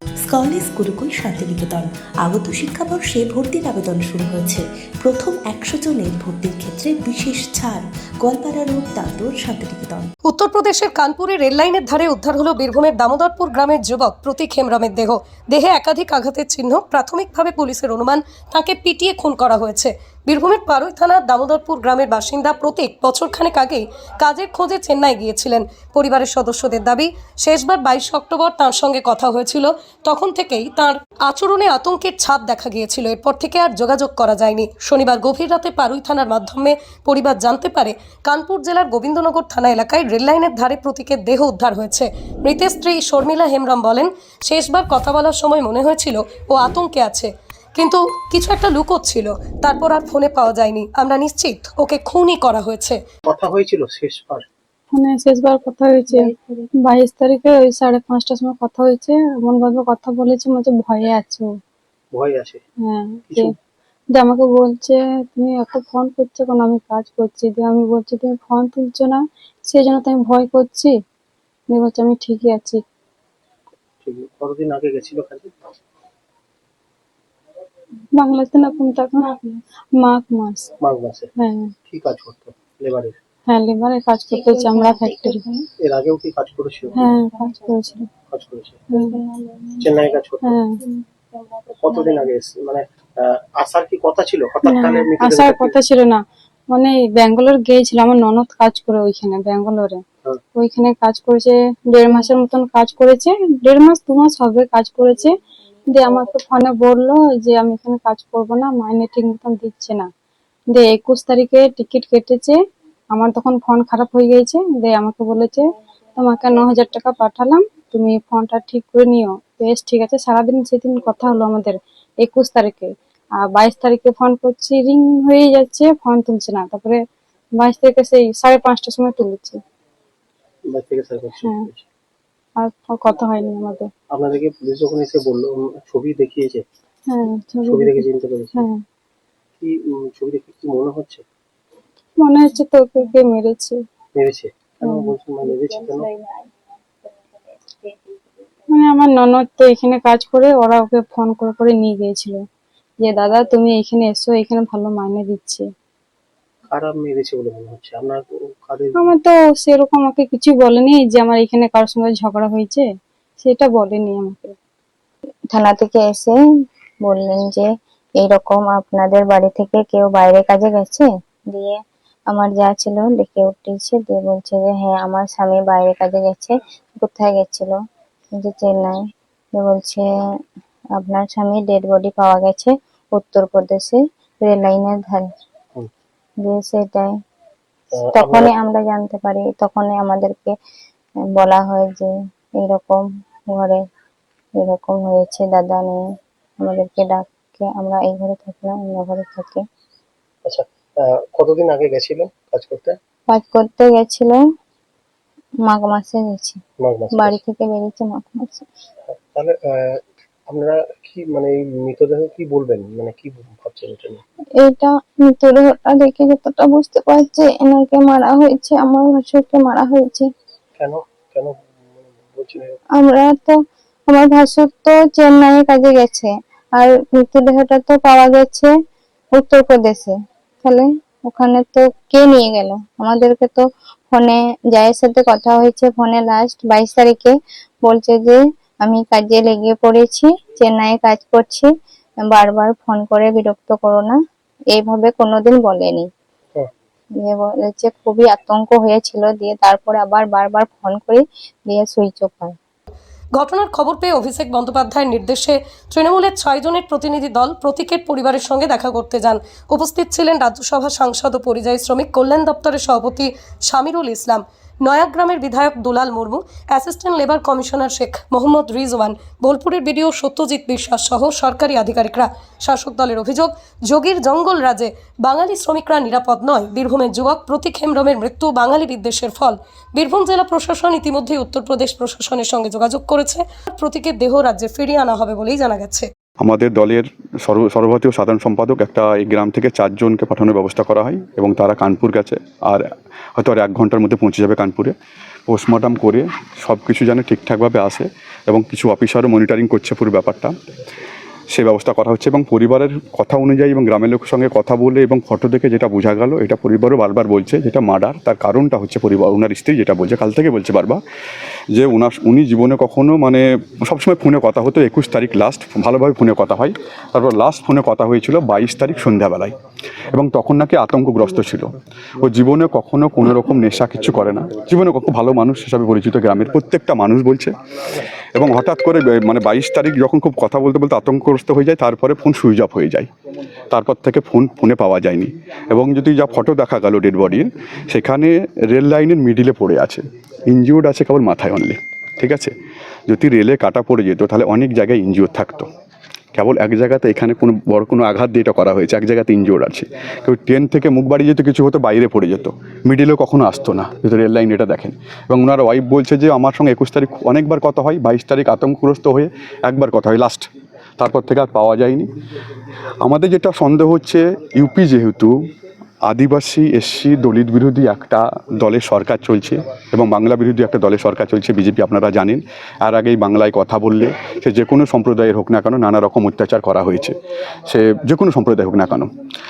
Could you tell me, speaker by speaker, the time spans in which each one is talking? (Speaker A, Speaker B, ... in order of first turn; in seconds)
Speaker A: 0.2-10.1
Speaker B: 10.2-53.0, 253.4-286.1
Speaker C: 53.3-54.5, 62.1-62.6, 63.3-63.5, 74.0-75.5, 80.8-81.3, 81.9-83.2, 85.8-87.1, 88.3-88.8, 89.8-90.6, 91.8-95.8, 130.7-131.8, 134.1-136.7, 137.7-138.7, 139.6-141.2, 144.2-146.1, 156.7-159.2, 187.9-188.5, 200.4-203.0, 206.8-207.4, 209.1-214.2, 220.8-221.6, 222.3-222.8
Speaker D: 54.9-56.3, 56.8-61.5, 62.8-63.5, 64.1-70.9, 71.7-72.8, 78.2-80.7, 81.4-81.7, 83.5-85.4, 86.9-88.0, 88.9-89.2, 90.4-90.8, 94.7-100.0, 100.5-105.3, 105.9-110.1, 110.7-112.6, 113.1-127.0, 127.6-129.6, 131.4-131.7, 132.6-133.9, 137.1-138.8, 142.2-143.8, 148.7-152.4, 153.0-155.7, 159.0-162.9, 163.4-164.6
Speaker E: 56.1-56.6, 84.5-85.6, 89.4-89.8, 91.4-92.0, 145.5-146.5, 147.7-148.1, 165.5-166.3, 167.1-167.7, 168.2-171.8, 172.3-177.8, 178.4-179.0, 179.6-180.1, 181.0-185.3, 186.4-187.1, 188.1-190.5, 191.4-193.0, 193.5-193.8, 194.6-196.0, 196.6-199.6, 203.3-204.4, 205.7-206.6, 207.1-208.6, 214.6-220.3, 223.0-223.6, 224.1-228.7, 229.4-241.7, 242.3-244.2, 244.7-246.1, 247.2-252.6
Speaker F: 286.4-294.9, 295.5-300.6, 301.5-311.0, 311.7-319.5, 320.1-321.7, 322.2-327.5, 328.4-333.1, 333.7-342.5, 343.1-345.7, 346.4-360.5, 361.0-362.1, 363.0-365.4, 366.1-379.1